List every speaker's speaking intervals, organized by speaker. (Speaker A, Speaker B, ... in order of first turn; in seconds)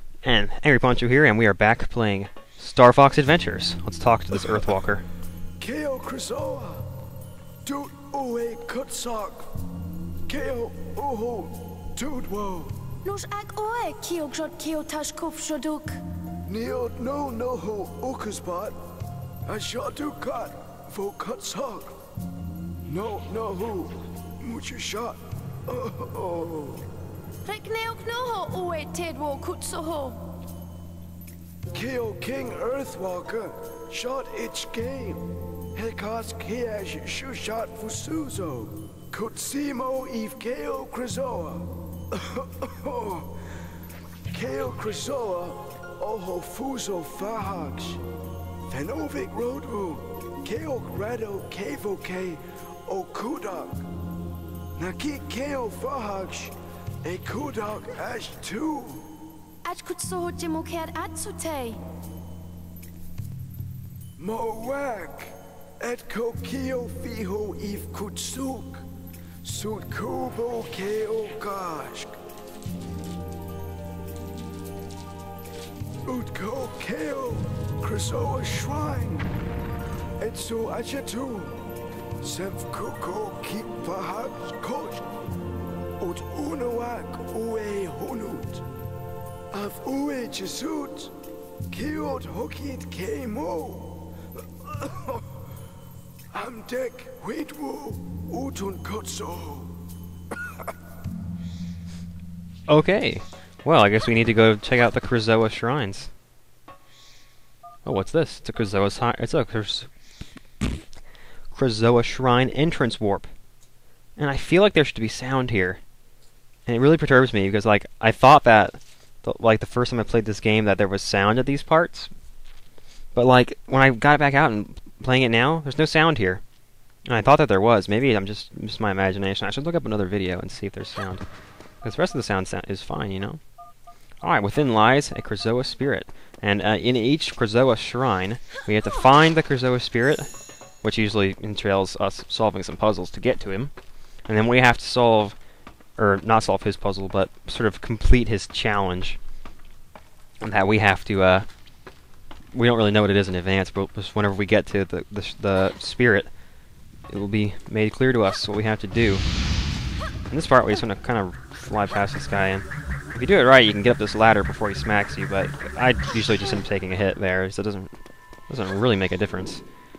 Speaker A: 0.2-5.0, 102.7-106.1, 107.8-109.9, 111.5-113.3, 114.2-115.8, 116.7-122.1, 123.1-126.4, 127.1-131.2, 131.8-133.4, 134.2-140.3, 140.8-143.7, 144.3-145.4, 146.0-149.2, 150.4-151.5, 152.5-156.3, 157.1-159.2, 160.3-167.9, 168.5-169.6
Speaker B: 5.6-6.9, 7.6-9.5, 10.3-12.8, 16.4-18.8, 19.5-21.9, 22.9-26.9, 31.7-43.3, 44.3-48.0, 48.7-53.9, 54.8-59.0, 64.2-68.8, 69.4-72.1, 76.0-79.3, 80.2-81.6, 82.2-85.0, 86.0-88.6, 89.5-91.1, 91.7-95.2, 96.3-99.7
Speaker C: 13.0-16.0, 27.4-30.2, 59.6-61.8